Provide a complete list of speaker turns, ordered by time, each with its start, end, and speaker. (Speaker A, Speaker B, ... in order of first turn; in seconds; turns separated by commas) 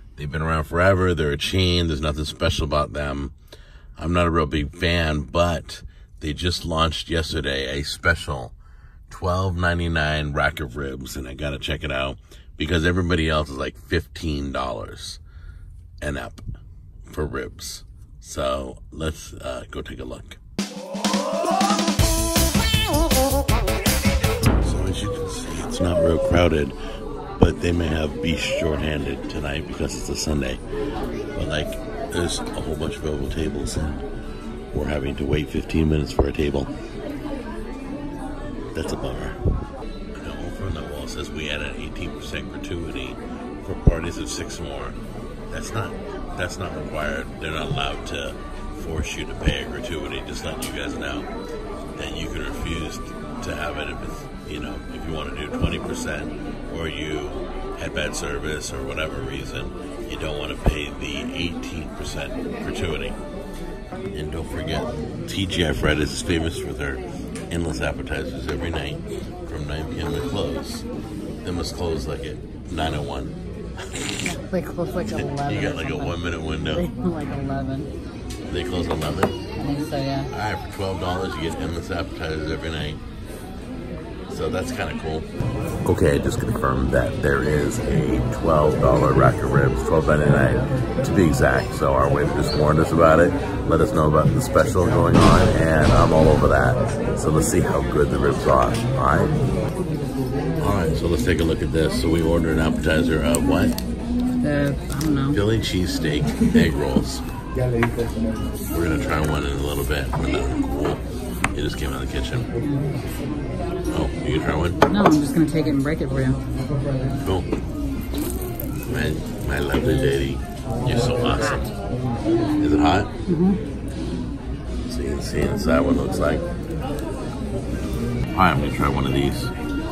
Speaker A: 0.2-3.3, Speaker A: 4.0-8.5, Speaker A: 9.1-15.2, Speaker A: 16.0-16.4, Speaker A: 17.1-20.4, Speaker A: 24.6-26.8, Speaker A: 27.4-30.6, Speaker A: 31.4-34.0, Speaker A: 34.7-36.7, Speaker A: 38.7-39.4, Speaker A: 40.1-45.0, Speaker A: 45.5-51.3, Speaker A: 52.0-63.2, Speaker A: 64.1-70.9, Speaker A: 71.4-73.3, Speaker A: 73.9-74.2, Speaker B: 74.2-77.9, Speaker A: 75.1-76.8, Speaker A: 78.5-79.4, Speaker B: 79.6-80.3, Speaker A: 80.3-83.0, Speaker A: 84.3-85.3, Speaker A: 85.8-99.4, Speaker A: 100.6-103.8, Speaker B: 104.4-105.4, Speaker A: 105.3-107.2, Speaker A: 108.7-112.5, Speaker B: 112.6-112.9, Speaker A: 113.9-114.8, Speaker B: 114.8-116.5, Speaker A: 117.2-117.5, Speaker A: 118.8-121.7, Speaker A: 122.6-123.1, Speaker B: 123.3-123.6, Speaker A: 124.9-126.4, Speaker A: 128.3-129.5